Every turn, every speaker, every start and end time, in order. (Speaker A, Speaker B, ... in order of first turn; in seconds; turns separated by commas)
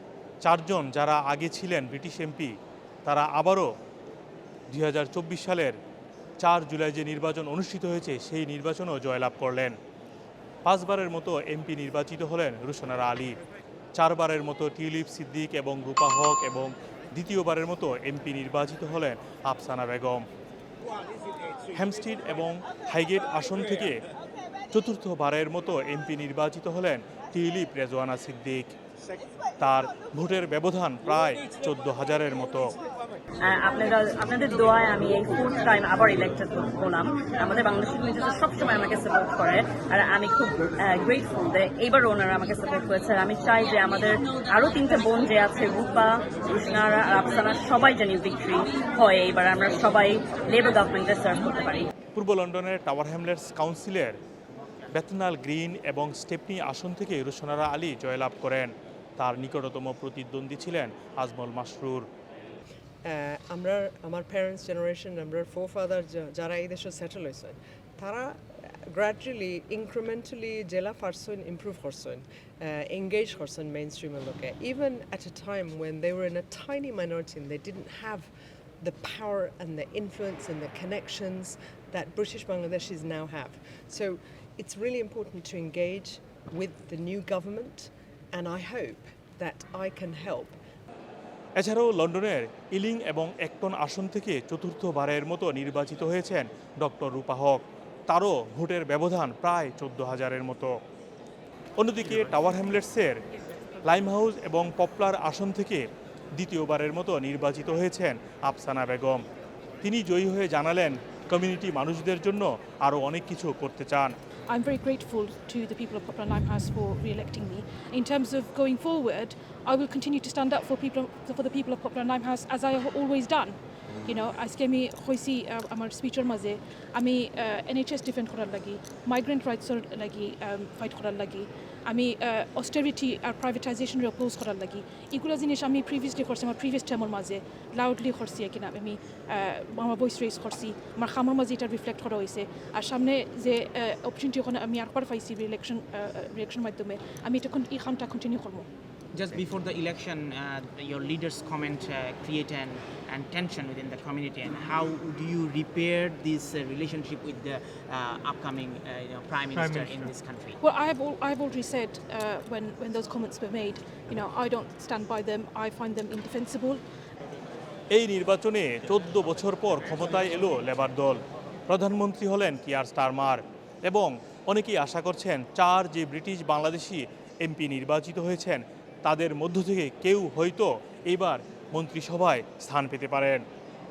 Speaker A: 0.4-2.5, Speaker A: 3.0-3.7, Speaker A: 4.7-5.8, Speaker A: 6.4-9.8, Speaker A: 10.6-13.4, Speaker A: 13.9-20.3, Speaker A: 21.7-24.0, Speaker A: 24.7-28.8, Speaker A: 29.6-32.7, Speaker B: 33.4-51.9, Speaker A: 52.1-54.2, Speaker A: 54.9-62.1, Speaker C: 63.0-78.3, Speaker C: 78.8-90.6, Speaker A: 91.6-100.8, Speaker A: 101.8-103.2, Speaker A: 103.8-109.2, Speaker A: 109.8-114.1, Speaker D: 114.5-148.7, Speaker E: 149.1-160.6, Speaker D: 160.6-166.8, Speaker A: 167.9-183.4